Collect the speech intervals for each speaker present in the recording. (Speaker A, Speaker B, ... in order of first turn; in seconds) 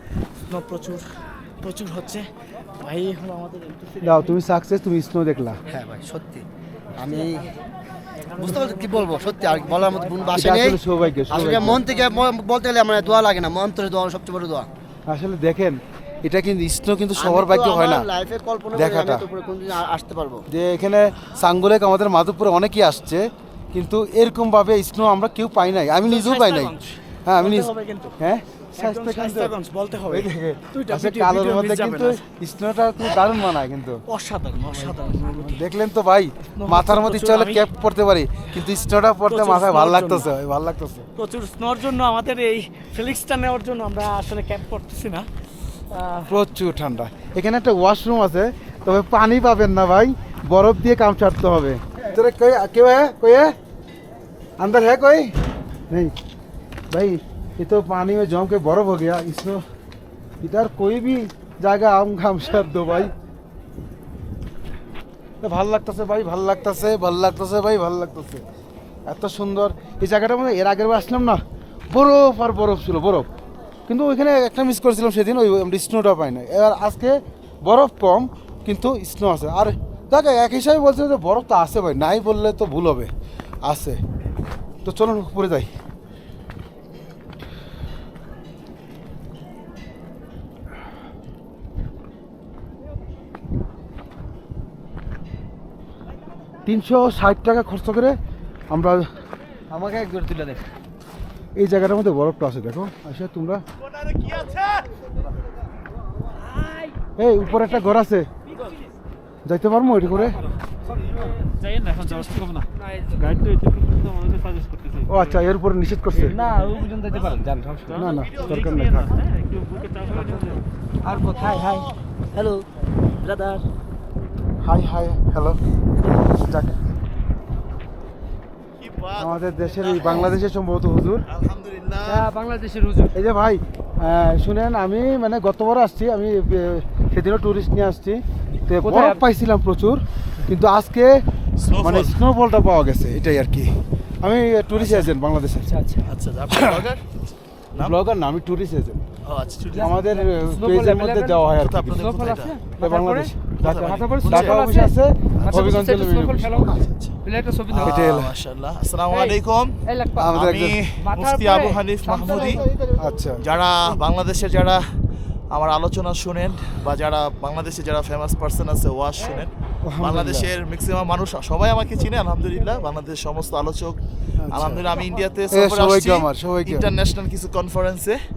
Speaker A: 0.5-4.1, 8.4-9.0, 26.0-28.1, 28.8-32.2, 33.0-33.3, 34.1-35.6, 36.6-37.7, 39.2-40.3, 41.2-45.3, 45.9-46.3, 100.1-100.6, 111.6-112.5, 116.3-118.0, 121.1-121.9, 123.2-123.6, 145.7-146.0
Speaker B: 4.0-5.6, 10.3-11.8, 15.1-18.1, 18.7-19.2, 20.5-29.6, 30.1-34.0, 34.7-41.1, 46.3-53.5, 54.6-55.3, 55.9-56.1, 56.9-59.6, 60.4-63.1, 65.4-68.4, 69.0-73.3, 73.9-83.1, 83.6-84.0, 84.8-85.7, 96.7-98.2, 98.7-99.1, 101.5-103.6, 107.2-108.3, 109.4-110.3, 115.1-116.4, 117.9-119.2, 124.6-125.6, 126.4-126.8, 129.2-131.2, 133.1-141.2, 141.8-145.7, 146.5-146.8, 147.8-149.0, 149.8-152.0, 152.8-156.7, 157.8-158.3, 160.2-160.8, 163.0-163.4, 169.8-170.5, 174.4-174.9, 175.5-176.9
Speaker C: 5.7-7.5, 8.3-14.7, 17.2-20.4
Speaker D: 104.4-104.8, 128.8-130.3, 131.2-132.3, 141.6-142.2, 144.7-145.1, 146.0-147.1, 149.2-150.0, 151.5-152.6, 153.6-154.7, 155.4-155.7, 156.8-157.2, 157.7-159.8, 160.3-162.7, 163.4-164.9, 165.5-174.0, 174.5-178.2
Speaker E: 112.1-112.6, 118.3-118.9, 132.1-133.1, 138.8-139.2, 150.5-151.4, 152.0-152.9, 153.7-154.9, 155.4-156.7, 157.3-158.0, 160.0-160.3, 161.0-162.6